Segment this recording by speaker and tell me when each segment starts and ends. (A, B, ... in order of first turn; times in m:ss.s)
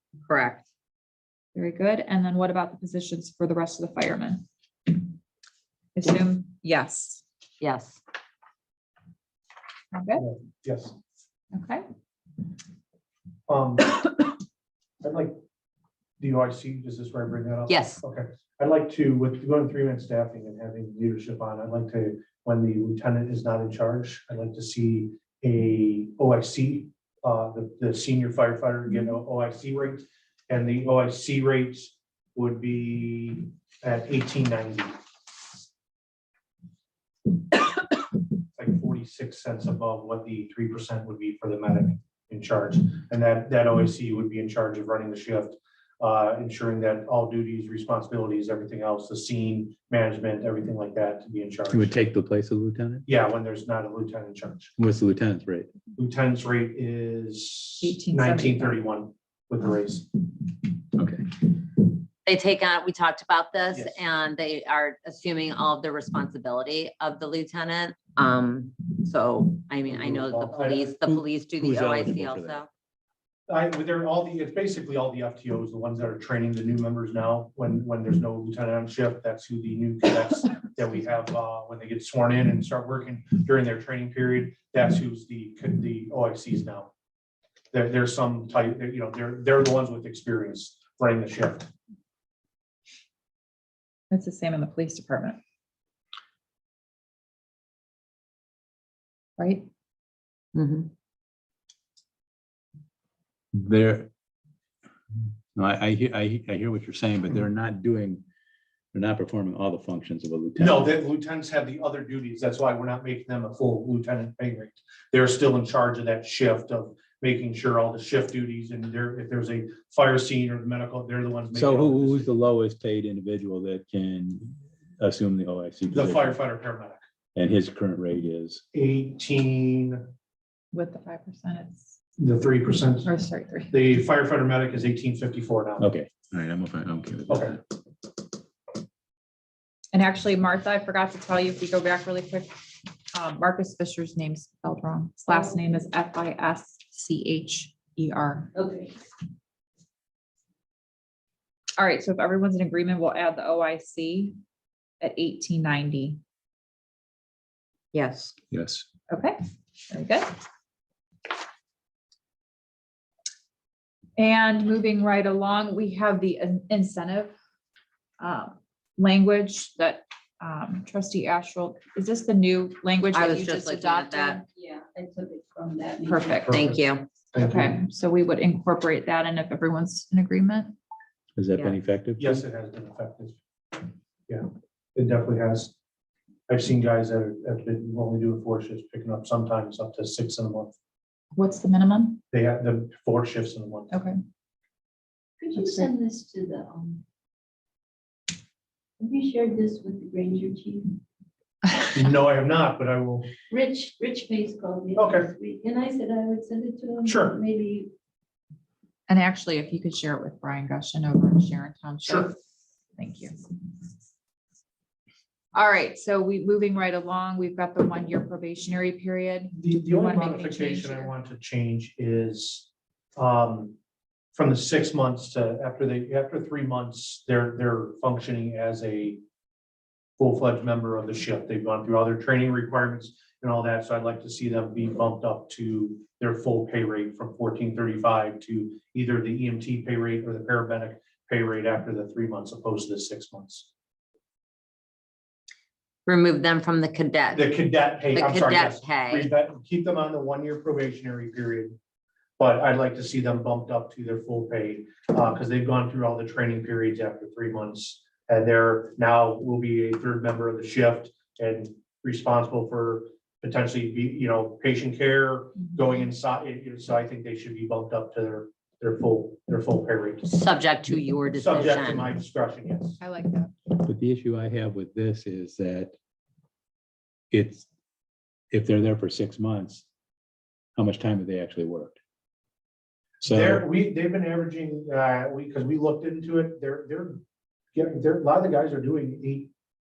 0:00.3-0:00.6 A
0:01.5-0:04.4 B
0:06.0-0:07.2 B
0:07.6-0:08.0 A
0:09.9-0:10.3 B
0:10.2-0:11.0 C
0:11.5-0:11.8 B
0:13.5-0:14.0 C
0:15.0-0:15.4 C
0:16.2-0:35.0 C
0:17.7-0:18.0 A
0:38.6-0:52.0 C
0:51.7-0:53.0 D
0:53.0-0:54.7 C
0:54.8-0:55.7 D
0:56.0-1:00.1 C
0:57.8-0:58.8 B
1:01.0-1:01.4 D
1:02.2-1:12.7 A
1:03.7-1:04.0 C
1:09.9-1:11.0 C
1:11.1-1:12.6 D
1:13.5-1:26.9 C
1:27.7-1:31.7 C
1:34.1-1:35.4 B
1:39.4-1:39.7 B
1:40.6-1:40.9 A
1:43.5-1:44.1 D
1:45.1-1:48.2 D
1:48.9-1:51.0 D
1:50.6-2:02.3 C
2:01.5-2:06.4 D
2:05.9-2:07.0 C
2:07.3-2:08.6 D
2:08.7-2:10.0 C
2:10.7-2:11.9 B
2:12.2-2:13.1 C
2:13.0-2:13.8 B
2:13.7-2:15.9 C
2:15.8-2:17.6 D
2:17.3-2:17.6 C
2:19.9-2:22.6 B
2:23.1-2:28.5 B
2:28.5-2:28.9 E
2:31.8-2:34.4 B
2:35.0-2:36.2 B
2:37.9-2:38.3 A
2:38.5-2:38.8 D
2:39.1-2:39.4 B
2:39.9-2:40.3 B
2:44.2-2:47.3 B
2:48.2-2:54.4 B
2:53.1-2:54.4 A
2:54.4-2:56.6 E
2:56.1-2:56.7 B
2:56.4-2:57.8 C
2:56.5-2:57.1 A
2:57.4-3:00.8 B
3:01.4-3:02.4 D
3:02.2-3:05.7 C
3:06.5-3:10.8 C
3:11.4-3:12.2 B
3:12.3-3:13.9 C
3:13.9-3:14.2 B
3:15.4-3:17.0 E
3:19.0-3:21.0 E
3:21.9-3:23.3 C
3:23.5-3:27.9 E
3:25.0-3:25.3 C
3:27.0-3:27.4 C
3:29.1-3:32.4 B
3:33.0-3:33.4 B
3:35.5-3:41.1 B
3:39.6-3:43.8 C
3:44.3-3:49.2 C
3:50.2-4:03.7 C
4:06.1-4:07.5 A
4:07.3-4:11.8 C
4:08.1-4:09.3 A
4:12.4-4:30.3 C
4:30.2-4:32.1 A
4:31.4-4:33.0 C
4:33.0-4:33.5 B
4:33.8-4:35.9 D
4:37.3-4:37.7 D
4:38.5-4:39.8 D
4:40.8-4:42.0 D
4:43.2-4:43.6 D
4:43.3-4:47.2 C
4:47.7-4:49.5 C